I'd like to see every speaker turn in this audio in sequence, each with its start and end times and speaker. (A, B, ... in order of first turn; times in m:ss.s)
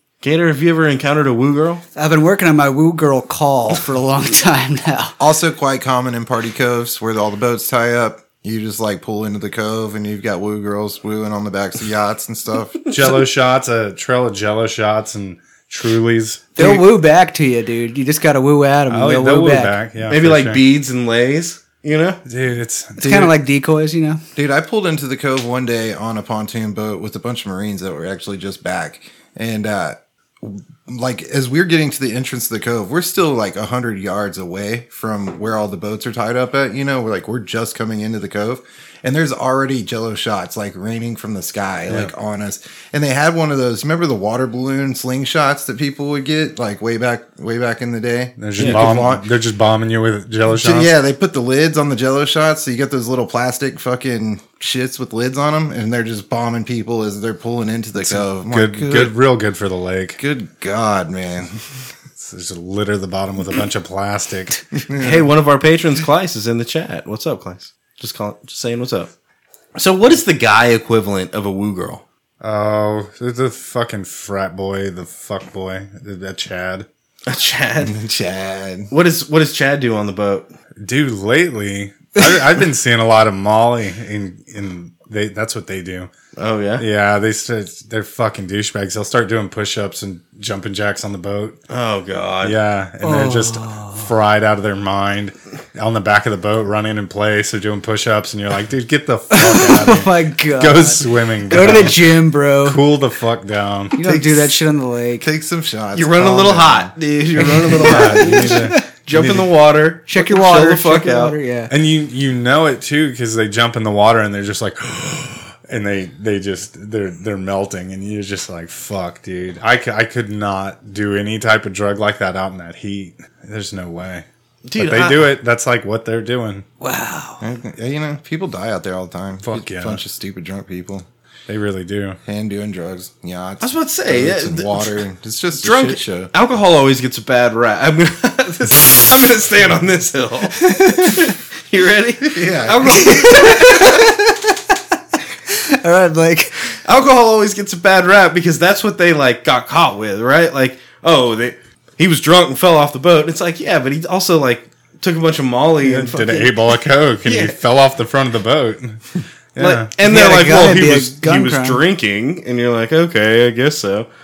0:00.2-0:01.8 A
0:01.9-0:05.2 B
0:05.2-0:12.8 C
0:12.9-0:16.5 D
0:16.6-0:19.7 B
0:18.9-0:20.6 D
0:20.1-0:22.2 A
0:22.2-0:23.3 D
0:23.0-0:24.2 B
0:23.0-0:23.3 C
0:24.4-0:49.3 C
0:48.4-0:50.9 D
0:48.6-0:48.8 A
0:50.5-0:59.2 C
0:58.1-1:00.2 D
1:00.2-1:01.6 C
1:02.2-1:04.6 D
1:04.8-1:05.2 C
1:05.0-1:09.1 A
1:09.8-1:12.0 A
1:12.4-1:16.9 D
1:17.3-1:18.0 A
1:17.8-1:18.9 C
1:18.9-1:20.5 A
1:20.8-1:26.1 D
1:26.4-1:26.8 A
1:26.8-1:31.6 D
1:31.7-1:32.6 A
1:32.4-1:44.0 D
1:33.0-1:34.1 B
1:39.3-1:42.8 B
1:44.0-1:45.3 B
1:44.0-1:44.4 A
1:45.2-1:46.9 C
1:45.9-1:51.4 A
1:47.4-1:48.9 B
1:47.7-1:49.5 D
1:50.1-1:51.7 B
1:51.7-2:06.6 D
2:04.6-2:05.3 A
2:06.8-2:07.4 B
2:07.4-2:11.0 C
2:09.4-2:10.0 D
2:11.5-2:12.2 D
2:12.2-2:16.3 C
2:13.6-2:15.0 A
2:15.6-2:24.2 A
2:20.6-2:21.2 B
2:22.2-2:23.0 C
2:22.8-2:24.5 B
2:25.5-2:26.7 B
2:26.7-2:36.3 A
2:35.8-2:39.9 D
2:37.2-2:37.6 A
2:39.6-2:44.1 A
2:40.0-2:41.8 B